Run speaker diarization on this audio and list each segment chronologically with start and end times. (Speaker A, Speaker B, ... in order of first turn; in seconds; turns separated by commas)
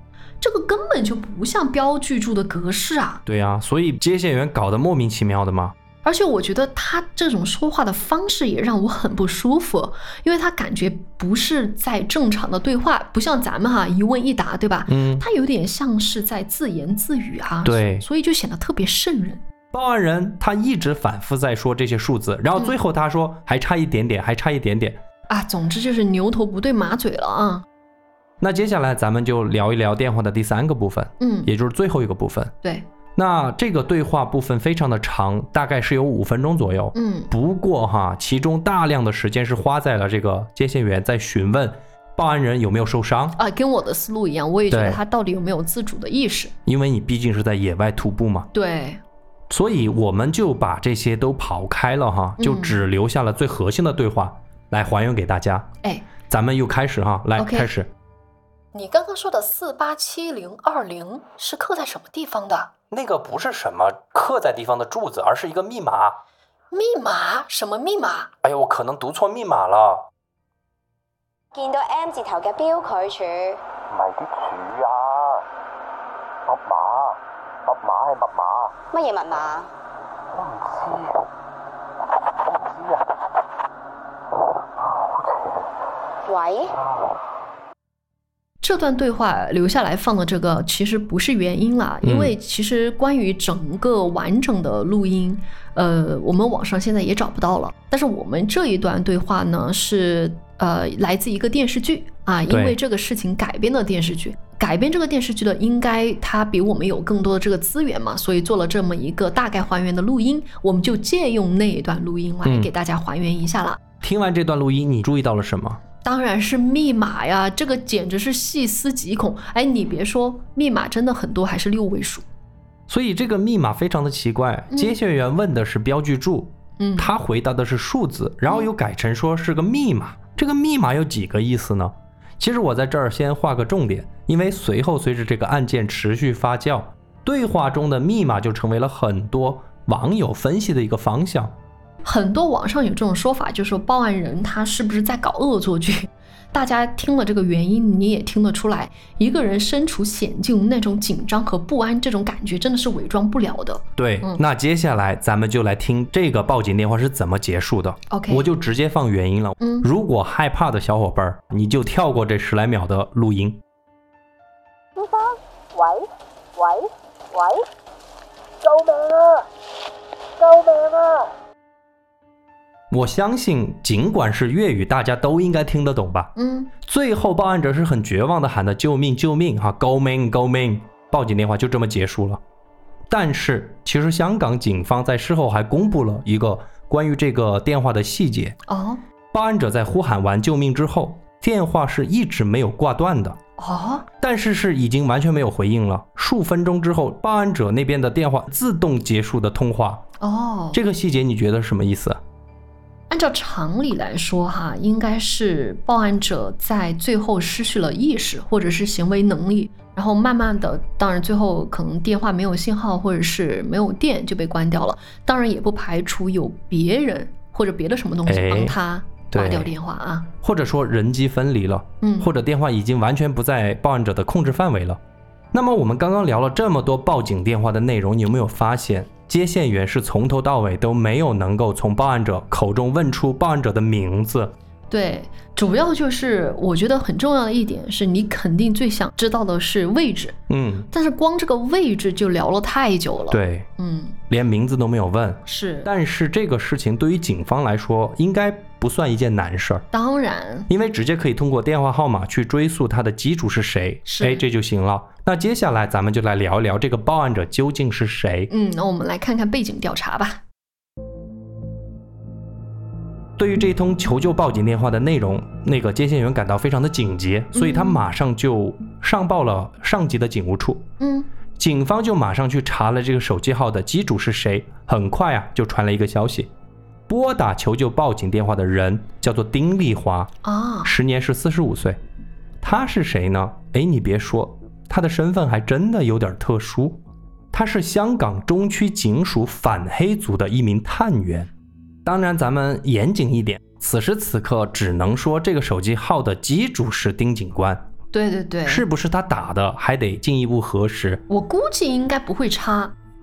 Speaker A: 0.4-3.2, Speaker B: 3.2-5.7, Speaker A: 6.0-19.4, Speaker B: 14.9-15.2, Speaker B: 17.6-18.1, Speaker B: 19.7-25.0, Speaker A: 25.3-27.6, Speaker B: 28.4-32.5, Speaker A: 31.2-31.5, Speaker B: 33.1-43.4, Speaker A: 36.9-37.3, Speaker A: 43.4-46.5, Speaker B: 44.7-45.0, Speaker B: 46.6-48.5, Speaker A: 48.5-49.0, Speaker B: 49.5-55.7, Speaker A: 52.4-52.8, Speaker B: 56.2-57.9, Speaker A: 57.4-57.7, Speaker A: 58.7-62.7, Speaker B: 62.9-66.2, Speaker A: 66.7-68.3, Speaker B: 68.4-70.1, Speaker C: 71.5-73.6, Speaker D: 73.9-75.5, Speaker D: 76.5-78.8, Speaker C: 78.9-79.7, Speaker D: 80.3-81.2, Speaker D: 82.5-83.0, Speaker D: 84.9-85.6, Speaker C: 86.3-86.7, Speaker A: 88.6-113.8, Speaker B: 92.0-92.3, Speaker B: 102.5-102.8, Speaker B: 112.4-112.7, Speaker B: 114.0-115.8, Speaker A: 116.0-122.2, Speaker B: 122.9-141.6, Speaker A: 124.7-125.0, Speaker A: 126.8-127.1, Speaker A: 142.0-154.4, Speaker B: 154.0-163.6, Speaker A: 158.1-158.5, Speaker A: 159.6-159.9, Speaker E: 164.9-167.6, Speaker E: 168.6-169.4, Speaker E: 170.4-171.3, Speaker B: 172.9-182.4, Speaker A: 176.3-176.7, Speaker B: 183.1-188.6, Speaker A: 188.7-189.0, Speaker B: 189.3-193.4, Speaker A: 193.6-194.1, Speaker B: 194.2-200.1, Speaker A: 200.2-200.8, Speaker B: 200.7-202.2, Speaker A: 203.1-220.3, Speaker B: 218.2-218.8, Speaker B: 219.3-219.7, Speaker B: 220.4-225.0, Speaker A: 222.0-222.3, Speaker B: 225.5-234.5, Speaker A: 234.9-240.4, Speaker B: 240.5-240.9, Speaker A: 240.9-244.2, Speaker B: 243.3-243.7, Speaker B: 244.3-249.8, Speaker A: 245.4-245.9, Speaker A: 249.9-250.7, Speaker B: 250.7-258.5, Speaker A: 254.1-254.4, Speaker A: 258.5-260.4, Speaker B: 263.4-270.9, Speaker A: 267.5-268.0, Speaker A: 271.0-271.3, Speaker B: 271.6-276.5, Speaker B: 277.1-282.0, Speaker A: 280.4-280.9, Speaker B: 282.6-291.5, Speaker B: 292.0-297.9, Speaker A: 298.1-298.8, Speaker B: 298.6-301.2, Speaker A: 301.3-302.9